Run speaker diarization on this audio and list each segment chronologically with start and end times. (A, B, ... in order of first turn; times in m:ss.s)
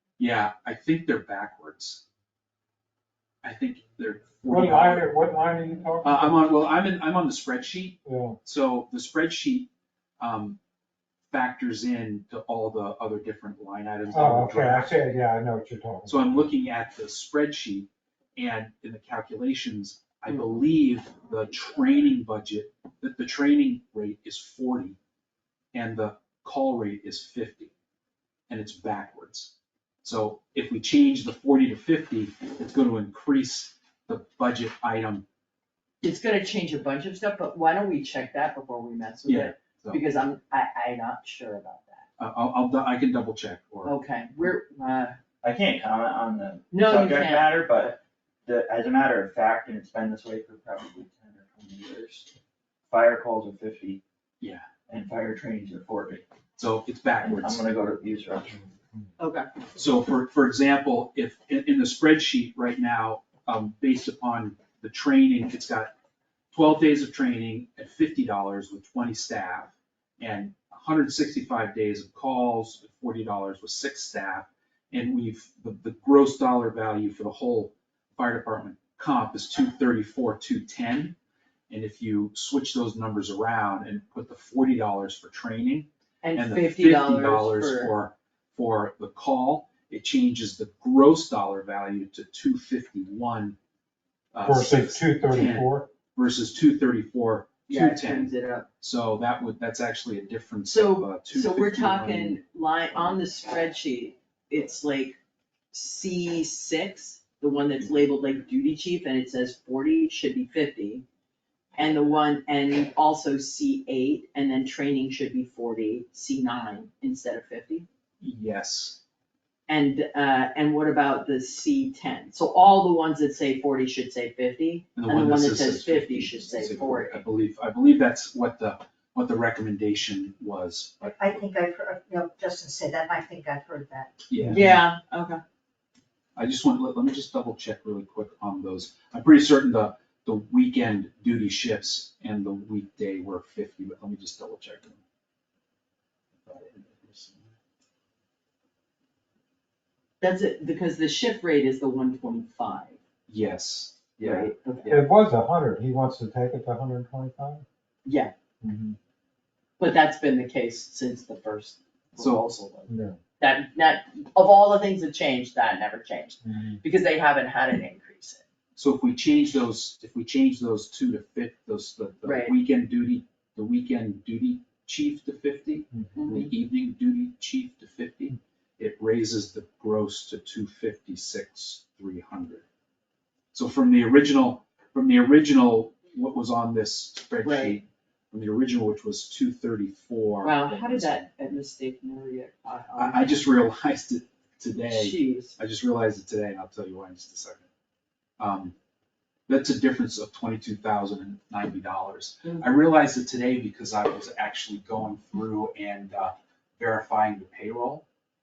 0:00.2-0:02.0 A
0:03.4-0:05.1 A
0:04.4-0:06.4 B
0:06.0-0:10.6 A
0:08.0-0:08.4 B
0:11.3-0:15.0 A
0:14.1-0:16.5 B
0:16.0-0:25.0 A
0:25.7-0:27.7 A
0:28.5-0:35.2 A
0:36.0-0:42.1 C
0:39.2-0:40.0 A
0:42.2-0:44.0 A
0:43.8-0:45.2 C
0:45.4-0:52.3 D
0:46.7-0:48.0 C
0:52.9-0:54.0 D
0:54.4-0:54.6 A
0:54.9-0:56.2 D
0:56.6-0:57.6 A
0:57.2-0:58.7 D
0:59.2-0:59.5 C
0:59.8-1:05.9 A
1:06.5-1:21.2 A
1:21.7-1:33.6 A
1:26.2-1:27.9 C
1:34.3-1:42.4 A
1:34.4-1:35.9 B
1:35.3-1:35.6 C
1:37.7-1:38.7 C
1:40.7-1:45.2 C
1:45.7-1:51.0 C
1:51.8-1:57.9 C
1:58.2-1:59.0 A
1:59.7-2:07.2 C
2:05.0-2:11.2 A
2:11.1-2:14.1 E
2:14.3-2:14.8 A
2:14.4-2:14.7 B
2:14.5-2:15.4 C
2:16.4-2:25.0 A
2:26.5-2:27.6 A
2:30.2-2:33.0 C
2:33.3-2:35.1 A
2:34.2-2:35.0 C
2:34.9-2:37.6 B
2:38.0-2:38.3 C
2:38.6-2:39.0 B
2:39.8-2:48.4 C
2:42.2-2:42.4 A
2:42.9-2:43.2 B
2:46.4-2:46.8 B
2:48.8-3:02.7 A
2:52.2-2:52.6 C
2:55.9-2:56.2 B
2:56.2-2:56.5 C
3:03.5-3:11.2 A
3:07.4-3:07.8 C
3:10.4-3:13.3 C
3:13.0-3:17.7 A
3:14.9-3:15.6 C
3:18.4-3:18.8 A
3:19.5-3:28.0 A
3:22.4-3:22.7 C